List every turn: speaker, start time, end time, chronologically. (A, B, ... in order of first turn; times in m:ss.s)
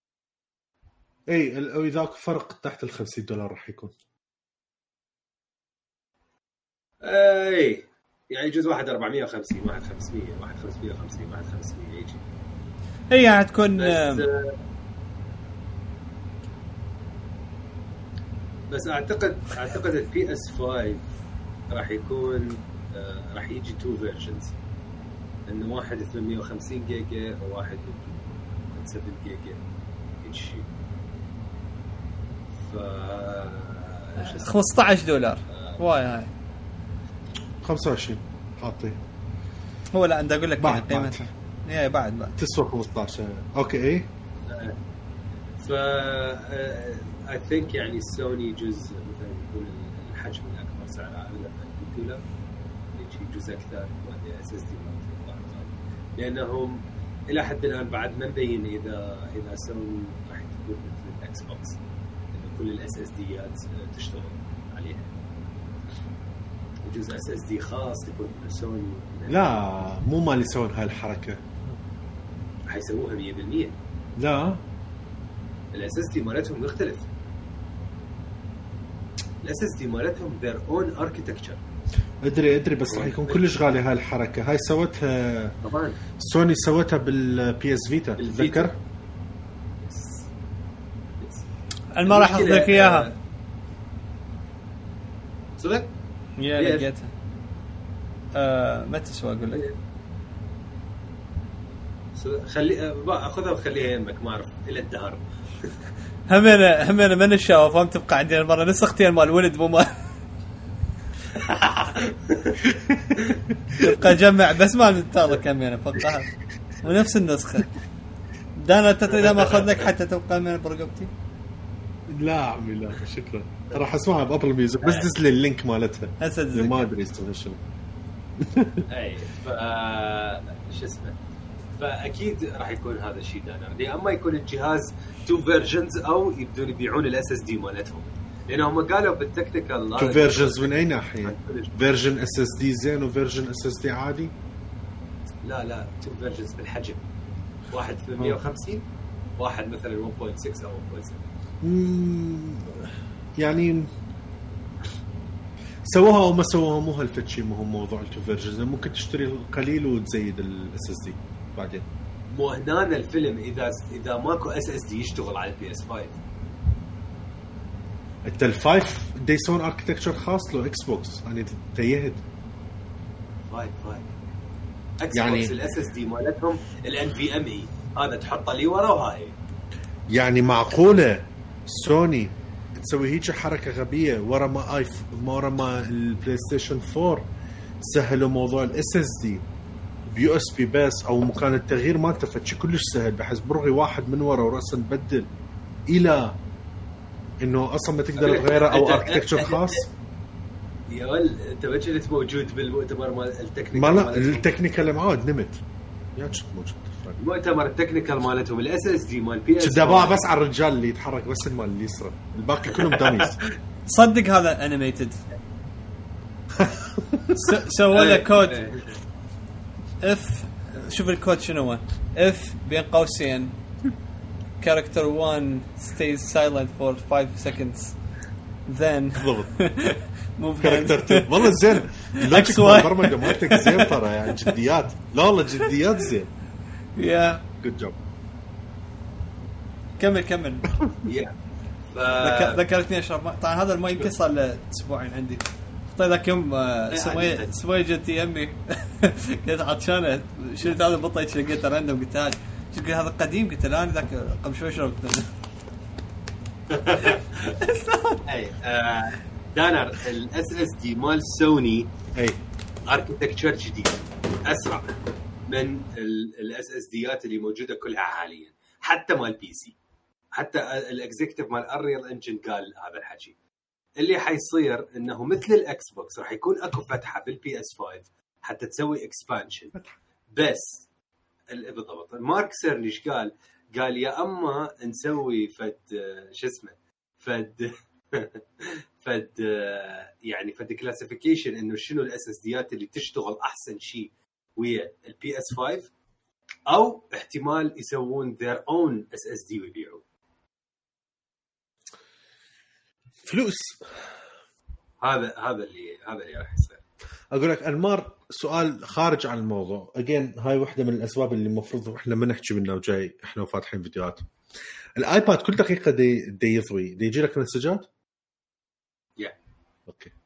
0:01.3-0:03.9 A
0:07.0-0:12.2 B
0:13.1-0:14.3 C
0:13.8-0:14.6 B
0:18.7-0:21.0 B
0:21.7-0:24.5 B
0:25.5-0:29.6 B
0:30.2-0:30.6 B
0:32.6-0:34.8 B
0:34.2-0:36.3 C
0:35.5-0:35.8 B
0:37.6-0:39.0 A
0:39.9-0:42.4 C
0:40.6-0:41.3 A
0:42.4-0:44.1 A
0:44.5-0:44.8 B
0:45.6-0:52.2 B
0:53.0-1:01.8 B
1:02.3-1:05.1 B
1:06.8-1:09.4 B
1:09.3-1:11.5 A
1:12.7-1:13.8 B
1:14.2-1:14.6 A
1:15.7-1:17.1 B
1:19.4-1:21.6 B
1:22.2-1:25.6 A
1:22.9-1:23.5 B
1:25.6-1:26.0 B
1:26.2-1:28.8 A
1:28.2-1:28.7 B
1:29.8-1:30.3 B
1:31.2-1:31.5 B
1:31.9-1:33.1 C
1:32.0-1:33.2 B
1:35.6-1:35.9 B
1:36.4-1:37.1 C
1:36.6-1:36.9 B
1:38.4-1:39.6 C
1:42.2-1:45.8 B
1:46.3-1:50.1 C
1:51.3-1:52.6 B
1:52.6-1:53.2 A
1:53.2-1:53.4 B
1:53.8-1:56.3 C
1:56.8-1:57.7 C
1:58.6-2:01.1 C
1:59.2-1:59.7 B
2:02.1-2:07.6 A
2:04.8-2:05.1 B
2:06.2-2:06.8 C
2:08.4-2:08.8 A
2:08.9-2:11.2 B
2:11.8-2:21.8 B
2:20.0-2:24.3 A
2:25.4-2:27.0 B
2:27.7-2:28.8 B
2:29.4-2:31.2 B
2:31.6-2:33.9 A
2:35.9-2:41.8 A
2:42.3-2:46.2 B
2:48.2-2:52.2 A
2:53.5-2:54.1 B
2:55.0-2:59.4 B
2:55.1-2:55.5 A
3:00.1-3:07.3 A
3:07.8-3:09.4 A
3:10.1-3:15.3 A
3:15.9-3:16.4 A
3:17.4-3:19.9 A
3:18.2-3:19.8 B
3:20.9-3:24.5 B
3:23.8-3:25.6 A
3:26.2-3:27.2 A
3:27.2-3:30.2 B
3:29.6-3:33.4 A
3:32.8-3:33.4 B
3:33.9-3:35.2 C
3:36.6-3:37.4 A
3:37.4-3:38.6 C
3:37.9-3:39.0 B
3:40.0-3:43.6 C
3:44.6-3:48.0 C
3:48.7-3:54.5 C
3:49.2-3:49.9 A
3:50.6-3:56.3 A
3:57.0-3:57.4 C
3:57.6-3:58.0 A
4:00.0-4:00.7 C
4:01.0-4:01.3 B
4:01.9-4:02.6 B
4:02.2-4:15.3 C
4:06.9-4:07.6 B
4:16.7-4:17.6 B
4:17.5-4:18.2 C
4:18.3-4:21.9 B
4:22.2-4:22.4 A
4:22.9-4:25.0 B
4:25.5-4:29.8 B
4:30.4-4:33.3 B
4:34.0-4:39.8 B
4:40.3-4:40.9 B
4:41.5-4:55.9 B
4:56.7-5:00.0 B
5:03.2-5:04.2 A
5:05.0-5:06.8 B
5:07.3-5:14.2 A
5:15.0-5:17.9 A
5:19.9-5:20.1 A